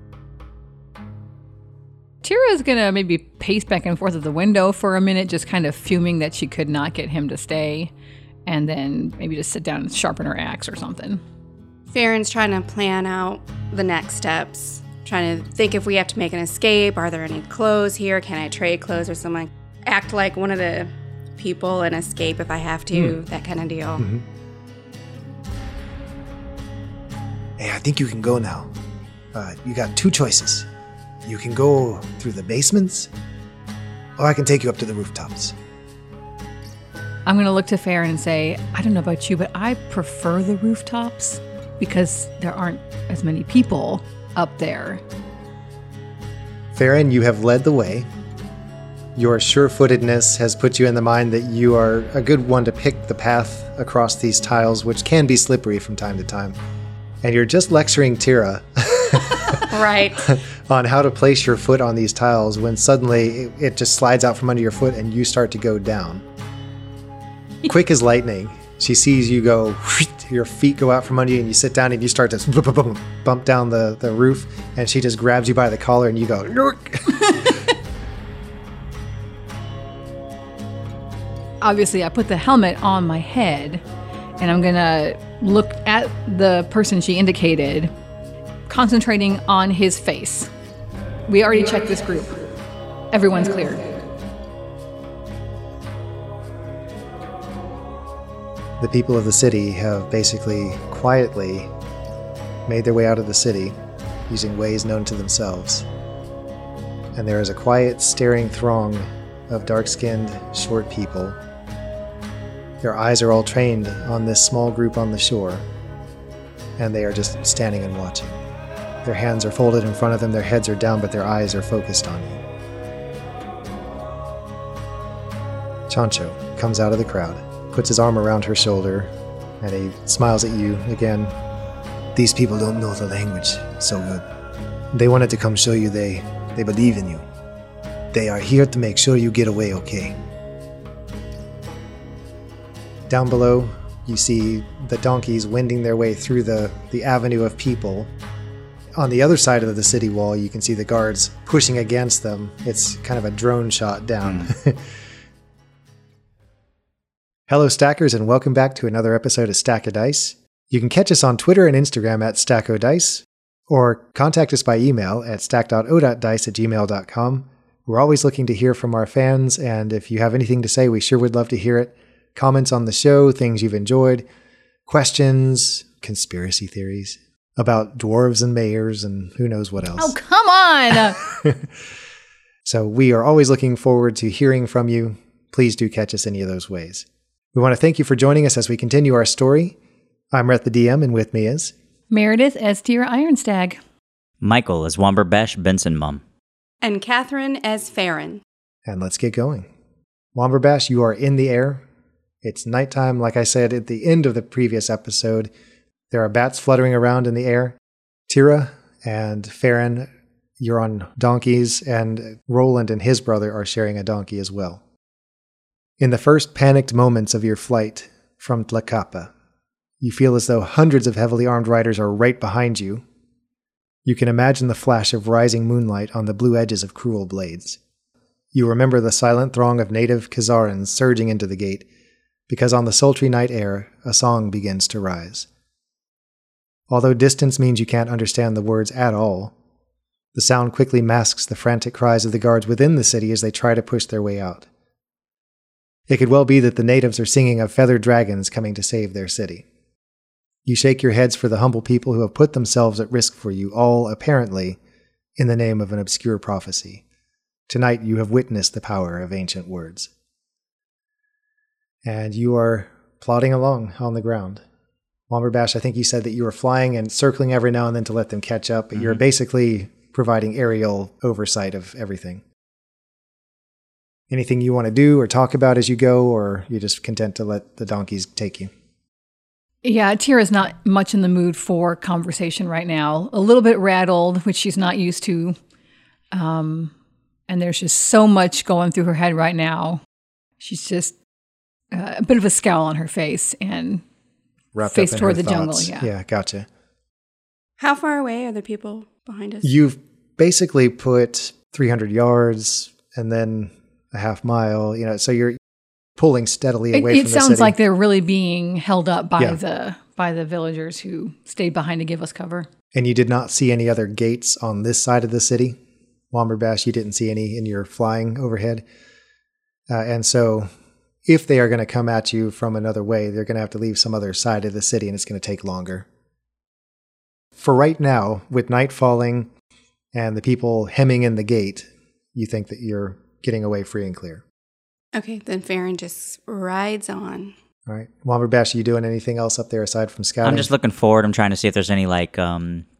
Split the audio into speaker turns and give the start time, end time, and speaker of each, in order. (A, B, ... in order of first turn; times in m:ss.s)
0:02.2-0:07.9 A
0:08.4-0:11.2 A
0:11.9-0:24.0 B
0:22.9-0:23.2 C
0:24.0-0:24.2 C
0:27.6-0:28.7 C
0:29.3-0:30.7 C
0:31.2-0:33.1 C
0:34.2-0:35.6 C
0:37.2-0:45.0 A
0:46.7-0:48.1 C
0:49.1-0:56.6 C
0:57.2-1:06.2 C
0:59.7-1:00.3 B
1:07.6-1:17.6 C
1:21.6-1:23.8 A
1:24.4-1:27.9 A
1:28.7-1:30.5 A
1:31.3-1:32.4 A
1:33.1-1:34.0 A
1:38.8-1:41.7 C
1:42.6-1:43.8 C
1:44.3-1:45.8 C
1:47.1-1:51.4 C
1:52.8-1:55.7 C
1:56.8-1:58.4 C
1:59.0-2:02.4 C
2:05.9-2:11.4 C
2:12.1-2:14.2 C
2:14.9-2:17.2 C
2:18.1-2:20.2 C
2:23.1-2:28.1 C
2:29.0-2:34.9 C
2:34.2-2:34.5 D
2:37.5-2:54.2 C
2:54.9-3:00.2 C
3:00.0-3:01.2 A
3:00.9-3:01.6 C
3:02.6-3:09.8 C
3:10.3-3:11.7 C
3:12.1-3:13.8 A
3:14.4-3:16.2 D
3:16.8-3:18.4 B
3:18.8-3:19.7 C
3:20.3-3:21.8 C
3:22.4-3:25.5 C
3:26.1-3:27.8 C
3:28.3-3:34.8 C
3:36.0-3:39.3 C
3:40.0-3:43.0 C
3:44.0-3:47.8 C
3:48.5-3:51.8 C
3:52.5-3:55.5 C
3:56.9-3:59.5 C
4:00.3-4:04.7 C
4:06.1-4:09.6 C
4:10.6-4:14.8 C
4:15.4-4:17.0 C
4:17.7-4:20.1 C
4:22.0-4:24.6 C
4:25.3-4:32.4 C
4:34.3-4:38.7 C
4:39.8-4:45.6 A
4:46.3-4:46.9 A
4:47.5-4:50.0 A
4:50.6-4:51.1 A
4:51.9-4:54.0 A
4:54.7-4:56.7 C
4:54.8-4:56.1 A
4:57.8-4:59.7 B
4:59.6-5:05.6 C
5:06.2-5:07.7 C
5:06.9-5:12.7 A
5:12.9-5:15.8 C
5:16.3-5:18.8 C
5:19.9-5:20.7 C
5:21.2-5:26.0 C
5:27.6-5:29.5 C
5:30.1-5:34.4 C
5:35.1-5:37.5 B
5:37.9-5:40.7 C
5:40.4-5:42.8 D